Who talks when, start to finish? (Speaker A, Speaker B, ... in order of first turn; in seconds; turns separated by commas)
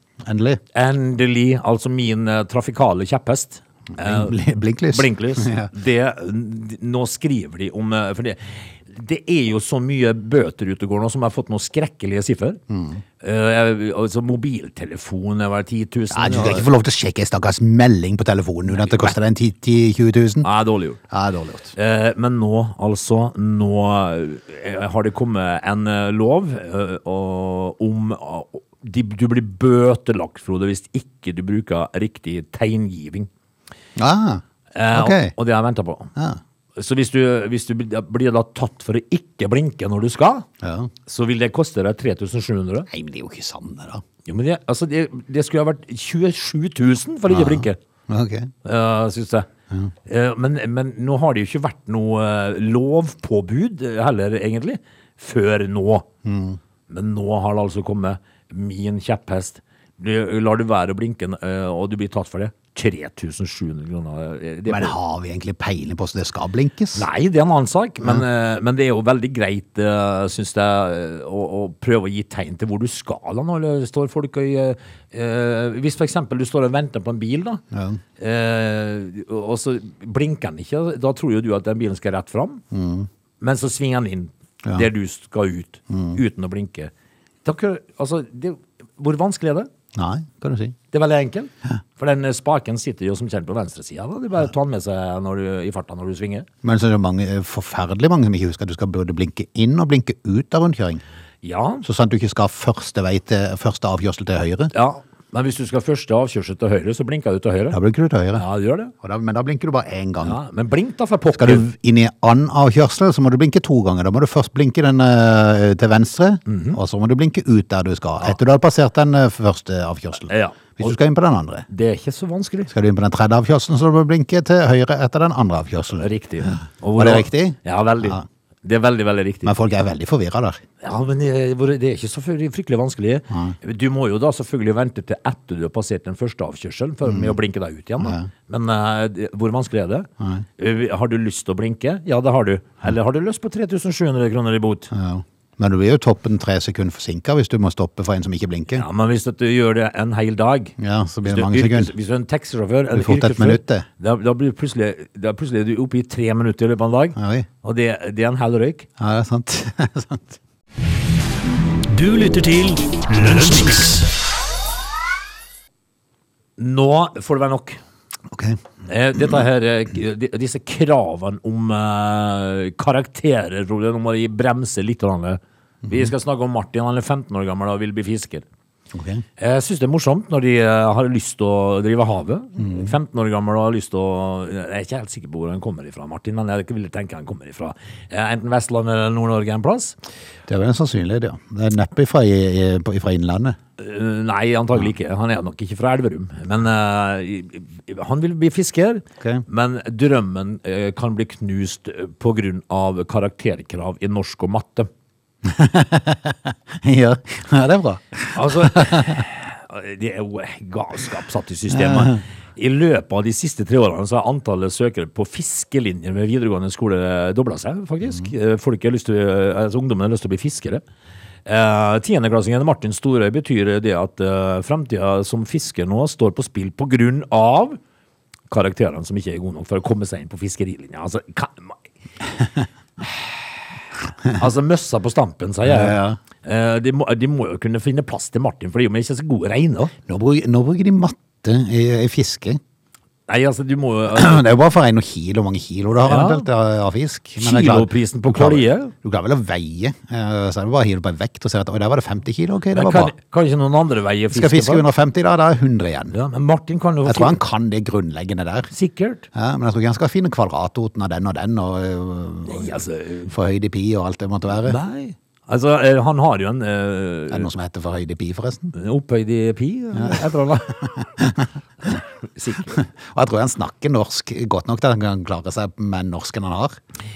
Speaker A: 0.2-0.6, Speaker B: 0.7-4.3, Speaker A: 3.9-5.7, Speaker B: 4.9-12.6, Speaker A: 12.7-13.0, Speaker B: 13.2-16.7, Speaker A: 16.1-20.5, Speaker B: 18.7-19.1, Speaker B: 20.4-21.0, Speaker A: 21.1-21.7, Speaker B: 21.7-33.3, Speaker A: 34.0-35.3, Speaker B: 34.7-36.1, Speaker B: 36.8-40.5, Speaker A: 40.6-40.9, Speaker B: 41.0-42.9, Speaker A: 42.9-44.0, Speaker B: 44.2-47.8, Speaker A: 47.3-48.5, Speaker B: 48.6-49.5, Speaker B: 50.0-56.1, Speaker A: 56.2-56.6, Speaker B: 56.9-65.0, Speaker A: 64.7-67.0, Speaker B: 66.9-77.6, Speaker A: 77.7-78.0, Speaker B: 78.2-82.6, Speaker A: 82.7-83.1, Speaker B: 83.4-86.9, Speaker A: 85.9-86.2, Speaker B: 87.4-89.7, Speaker A: 89.9-90.7, Speaker B: 90.9-96.5, Speaker A: 96.6-101.0, Speaker B: 101.4-101.8, Speaker A: 101.8-104.7, Speaker B: 104.7-107.8, Speaker A: 107.7-108.4, Speaker B: 108.3-108.9, Speaker A: 109.0-110.4, Speaker B: 110.2-111.6, Speaker A: 111.3-121.7, Speaker B: 116.5-116.8, Speaker B: 120.3-121.0, Speaker B: 121.7-122.7, Speaker A: 122.7-128.2, Speaker B: 126.0-129.5, Speaker A: 129.4-130.6, Speaker B: 130.8-144.9, Speaker A: 133.3-133.6, Speaker A: 137.0-137.3, Speaker A: 138.0-138.3, Speaker A: 140.2-140.4, Speaker A: 144.9-148.8, Speaker B: 148.7-158.8, Speaker A: 150.8-151.9, Speaker A: 152.9-153.9, Speaker A: 157.2-157.5, Speaker A: 159.0-160.4, Speaker C: 161.9-164.1, Speaker B: 166.6-167.8, Speaker A: 168.3-168.6, Speaker B: 168.8-178.4, Speaker A: 178.9-179.2, Speaker B: 179.4-190.0, Speaker A: 182.6-182.9, Speaker A: 190.5-193.6, Speaker B: 193.8-204.9, Speaker A: 205.4-209.2, Speaker B: 208.3-220.8, Speaker A: 211.8-212.2, Speaker B: 221.4-227.8, Speaker B: 228.5-231.8, Speaker B: 234.3-239.9, Speaker A: 235.6-236.2, Speaker A: 240.1-242.6, Speaker B: 243.3-244.4, Speaker A: 244.1-253.1, Speaker B: 246.0-246.5, Speaker B: 247.4-248.9, Speaker B: 252.7-254.9, Speaker A: 254.3-256.1, Speaker B: 256.1-257.4, Speaker A: 257.1-258.7, Speaker B: 258.7-259.3, Speaker A: 259.3-264.8, Speaker B: 262.4-263.3, Speaker B: 264.6-267.5, Speaker A: 267.3-268.7, Speaker B: 268.7-270.8, Speaker A: 270.0-270.2, Speaker A: 270.8-271.5, Speaker B: 271.8-272.8, Speaker A: 272.7-276.8